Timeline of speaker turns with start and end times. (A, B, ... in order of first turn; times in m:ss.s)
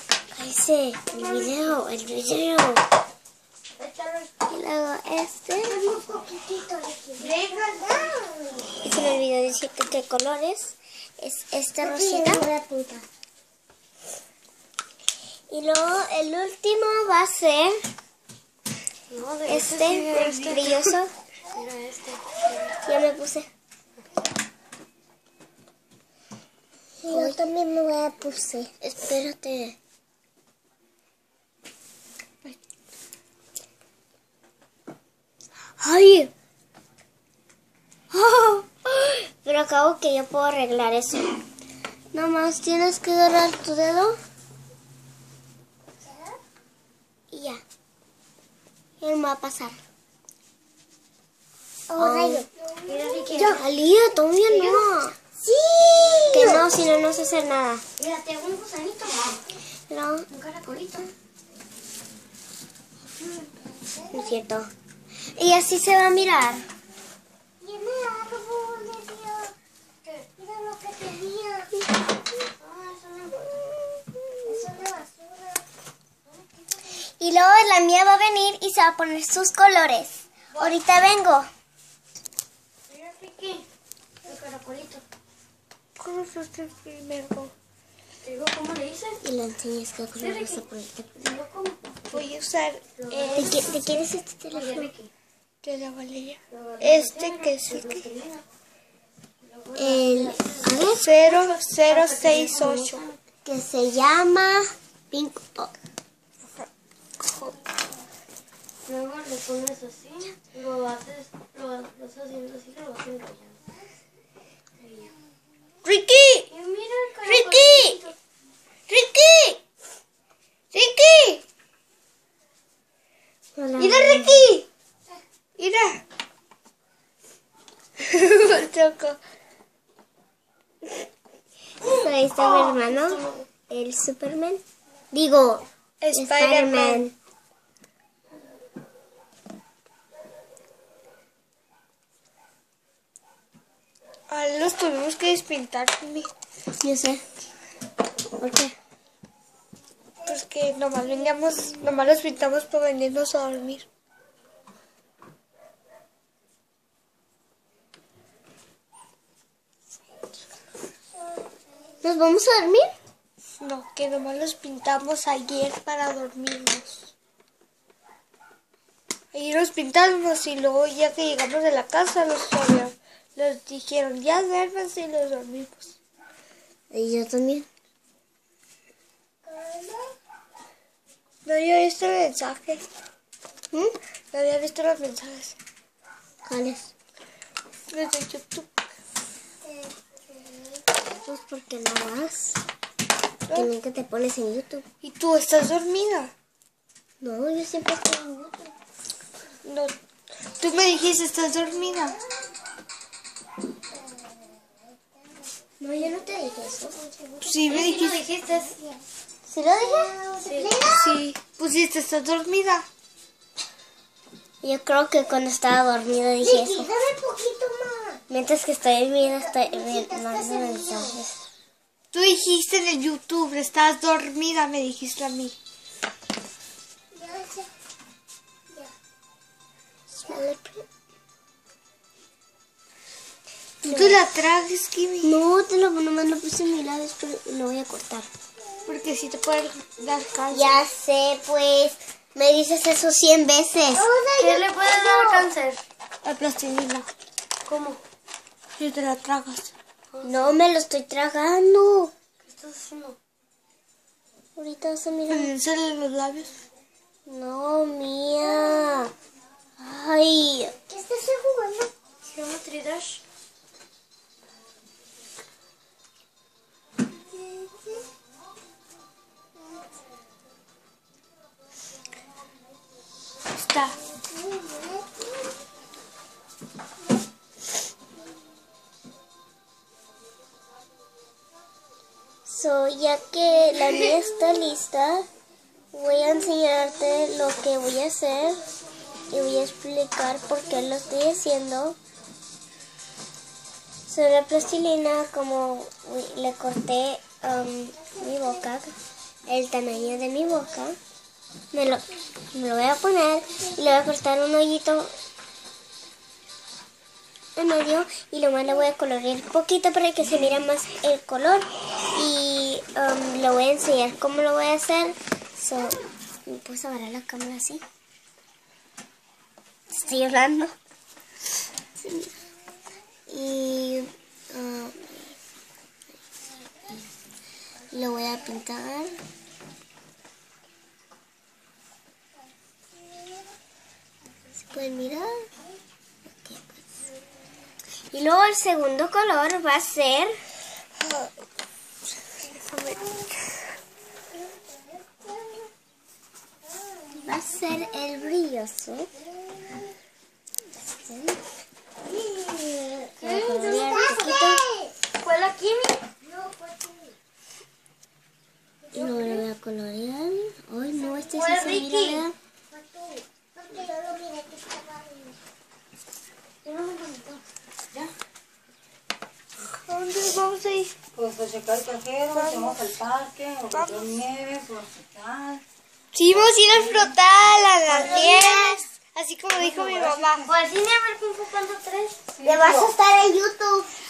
0:00.3-0:02.8 A
0:03.8-0:04.3 B
0:04.5-0:05.8 A
0:05.6-0:08.7 C
0:07.2-0:08.1 B
0:08.8-0:12.5 A
0:11.8-0:13.0 C
0:15.5-0:17.8 A
0:19.1-0:20.6 D
0:19.5-0:21.1 A
0:19.7-0:20.9 B
0:21.5-0:22.8 D
0:22.8-0:23.5 A
0:27.0-0:28.7 C
0:27.1-0:27.4 A
0:28.7-0:29.8 A
0:35.8-0:36.3 A
0:38.1-0:41.4 A
0:42.1-0:44.2 A
0:46.0-0:46.4 C
0:47.3-0:47.6 A
0:49.0-0:49.8 A
0:51.9-0:52.5 C
0:51.9-0:52.4 A
0:52.8-0:53.6 D
0:53.3-0:53.6 C
0:53.4-0:55.2 A
0:54.5-0:54.8 D
0:55.4-0:56.7 C
0:56.3-0:57.8 A
0:58.0-0:59.4 D
0:59.9-1:00.3 A
1:00.3-1:01.1 D
1:04.1-1:04.7 A
1:05.3-1:06.7 A
1:07.6-1:09.5 C
1:10.3-1:11.8 C
1:12.6-1:13.8 D
1:14.4-1:15.6 C
1:16.3-1:16.7 D
1:17.2-1:21.5 A
1:22.9-1:23.6 D
1:24.2-1:25.0 D
1:26.0-1:27.5 B
1:28.2-1:29.2 D
1:29.2-1:31.3 A
1:30.2-1:30.6 D
1:31.2-1:32.2 D
1:32.1-1:33.5 B
1:33.0-1:35.1 D
1:33.3-1:34.9 A
1:35.6-1:38.1 B
1:36.5-1:38.4 D
1:39.4-1:43.2 D
1:39.7-1:41.1 A
1:40.9-1:43.0 B
1:43.4-1:45.7 A
1:47.2-1:47.6 B
1:48.8-1:53.6 D
1:54.8-1:55.1 D
1:55.8-1:56.5 B
1:56.5-1:58.1 D
1:57.2-1:58.0 B
1:58.9-1:59.6 B
2:00.7-2:01.4 B
2:03.6-2:04.5 A
2:03.8-2:04.6 B
2:05.6-2:06.0 B
2:08.0-2:09.2 B
2:11.8-2:17.1 A
2:12.4-2:13.4 D
2:16.0-2:17.0 B
2:24.3-2:26.3 B
2:26.8-2:27.2 A
2:28.4-2:28.7 A
2:30.2-2:33.8 B
2:42.0-2:42.9 A
2:43.6-2:47.1 B
2:49.3-2:56.0 B
2:56.9-2:57.7 A
2:59.4-3:00.1 C
3:01.4-3:02.8 B
3:04.3-3:05.6 B
3:06.4-3:06.9 A
3:07.9-3:08.7 B
3:09.6-3:10.8 C
3:11.1-3:12.6 A
3:13.5-3:14.8 A
3:15.0-3:16.3 B
3:17.2-3:18.7 A
3:19.6-3:19.9 B
3:20.5-3:22.2 B
3:25.8-3:27.3 A
3:27.4-3:28.2 B
3:27.7-3:28.8 D
3:29.5-3:30.1 A
3:29.8-3:31.2 C
3:30.4-3:30.8 D
3:30.9-3:32.8 B
3:34.6-3:36.9 A
3:36.4-3:38.2 C
3:38.3-3:41.4 A
3:39.4-3:41.2 C
3:42.1-3:45.6 B
3:47.1-3:47.7 C
3:50.2-3:50.8 A
3:53.8-3:54.2 A
3:53.8-3:55.4 B
3:55.2-3:58.3 A
3:58.9-4:00.8 B
4:00.5-4:04.1 A
4:03.9-4:05.5 C
4:04.4-4:05.8 D
4:06.2-4:07.1 B
4:07.6-4:08.0 D
4:08.8-4:09.7 B
4:10.1-4:10.5 D
4:10.2-4:12.1 A
4:12.4-4:13.2 D
4:14.6-4:15.5 A
4:15.3-4:16.5 B
4:17.3-4:19.1 A
4:19.8-4:20.7 A
4:20.9-4:21.9 C
4:22.3-4:23.2 D
4:27.5-4:28.0 C
4:33.5-4:34.0 B
4:34.2-4:35.3 C
4:42.4-4:45.3 A
4:45.9-4:48.6 A
4:49.3-4:52.0 A
4:54.1-4:58.9 A
4:59.5-5:01.0 A
5:01.7-5:05.1 A
5:07.6-5:17.8 A
5:19.9-5:20.8 A
5:22.0-5:22.3 A
5:23.3-5:25.3 A
5:27.9-5:29.2 A
5:34.7-5:35.5 A
5:36.3-5:37.0 A
5:38.1-5:40.4 A
5:41.0-5:41.3 B
5:42.4-5:43.0 B
5:44.5-5:45.7 C
5:47.1-5:49.1 A
5:50.8-5:51.4 A
5:52.0-5:55.0 C
5:53.2-5:54.0 D
5:53.2-5:54.6 A
5:55.2-5:56.0 D
5:56.2-5:57.2 C
5:58.8-5:59.4 C
5:58.9-6:02.3 A
6:01.0-6:01.5 C
6:01.3-6:02.2 D
6:02.7-6:05.4 C
6:06.6-6:07.4 D
6:09.7-6:10.9 B
6:11.2-6:15.6 E
6:12.3-6:12.9 B
6:13.7-6:14.1 B
6:16.1-6:20.5 B
6:17.9-6:18.8 A
6:20.4-6:22.2 D
6:22.4-6:22.8 E
6:22.4-6:23.9 A